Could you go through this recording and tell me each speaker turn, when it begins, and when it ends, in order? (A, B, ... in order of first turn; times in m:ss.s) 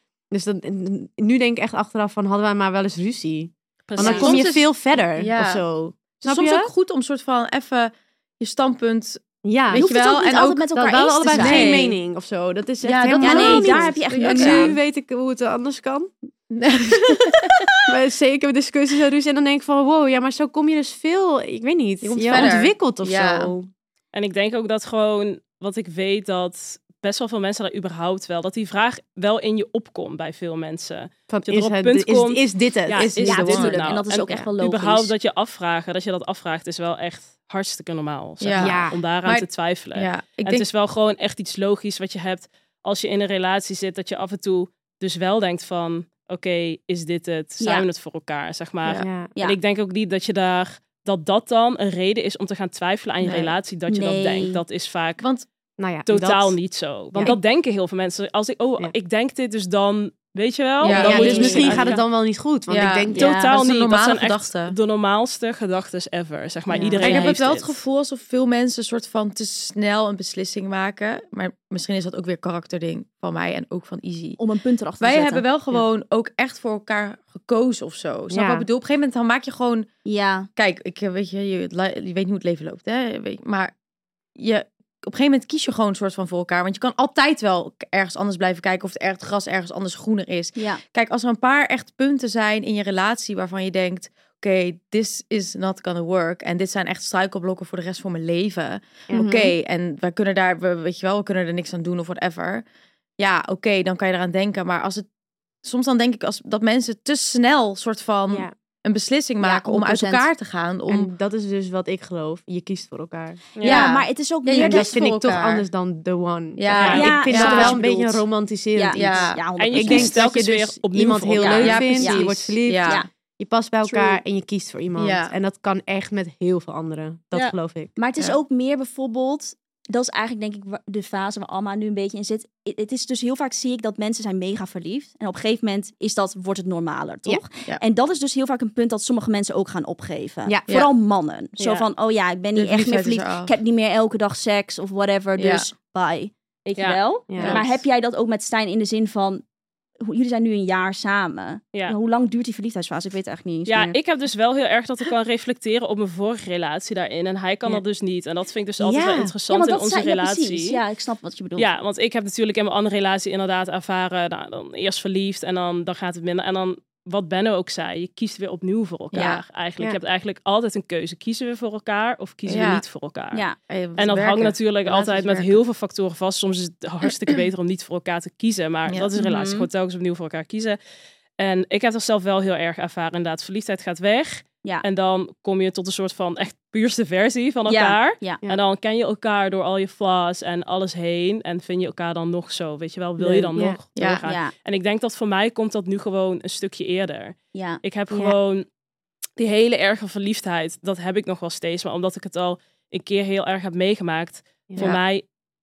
0:00.3-0:06.7 A
0:03.9-0:04.4 B
0:04.0-0:04.4 C
0:04.0-0:05.6 D
0:06.2-0:10.7 D
0:09.4-0:09.9 A
0:09.7-0:11.7 C
0:10.7-0:16.1 A
0:11.2-0:12.0 D
0:12.8-0:14.8 D
0:13.2-0:14.8 C
0:16.5-0:17.7 D
0:17.8-0:23.7 A
0:22.0-0:23.5 D
0:24.1-0:55.2 B
0:31.3-0:33.1 A
0:32.9-0:33.9 D
0:33.2-0:35.1 C
0:38.4-0:40.7 D
0:38.6-0:39.0 A
0:47.6-0:47.8 C
0:48.8-0:49.1 D
0:49.0-0:49.3 A
0:53.2-0:53.5 D
0:53.9-0:54.6 C
0:55.2-0:55.4 D
0:55.8-0:56.6 A
0:56.1-1:02.0 B
1:00.8-1:01.8 D
1:00.9-1:01.9 C
1:00.9-1:03.2 A
1:02.7-1:04.8 D
1:03.1-1:03.5 C
1:03.2-1:07.8 B
1:06.7-1:07.3 A
1:07.0-1:14.4 D
1:14.4-1:15.5 C
1:15.0-1:19.9 D
1:18.3-1:18.6 A
1:20.0-1:20.5 C
1:20.6-1:23.7 D
1:24.4-1:42.6 D
1:30.6-1:30.8 C
1:39.1-1:39.5 C
1:43.2-1:45.0 D
1:45.6-1:51.1 D
1:49.4-1:50.3 C
1:50.9-1:53.4 A
1:53.6-1:53.8 B
1:53.6-1:55.0 C
1:53.6-1:55.6 D
1:54.5-2:07.9 A
1:56.6-1:58.2 D
1:56.7-1:57.2 B
1:56.9-1:57.8 C
1:58.7-2:00.2 C
1:58.9-1:59.4 D
1:59.6-2:02.0 B
2:01.4-2:03.1 C
2:01.6-2:03.0 D
2:03.8-2:04.2 C
2:05.0-2:05.3 D
2:08.0-2:29.4 C
2:21.6-2:21.9 B
2:22.5-2:23.5 D
2:25.4-2:25.7 D
2:26.8-2:27.8 B
2:27.3-2:27.6 A
2:30.0-2:34.0 C
2:33.7-2:40.8 B
2:38.8-2:39.3 A
2:39.5-2:41.7 C
2:41.6-2:53.4 B
2:49.1-2:49.4 D
2:52.4-2:52.8 D
2:53.7-2:55.6 D
2:54.0-3:00.8 B
2:57.1-2:57.4 D
2:58.9-2:59.1 D
2:59.2-2:59.7 C
3:01.4-3:18.6 B
3:07.6-3:08.4 C
3:13.2-3:13.8 A
3:14.0-3:14.2 D
3:14.2-3:14.5 C
3:17.5-3:17.8 C
3:18.1-3:18.4 A
3:19.4-3:25.2 B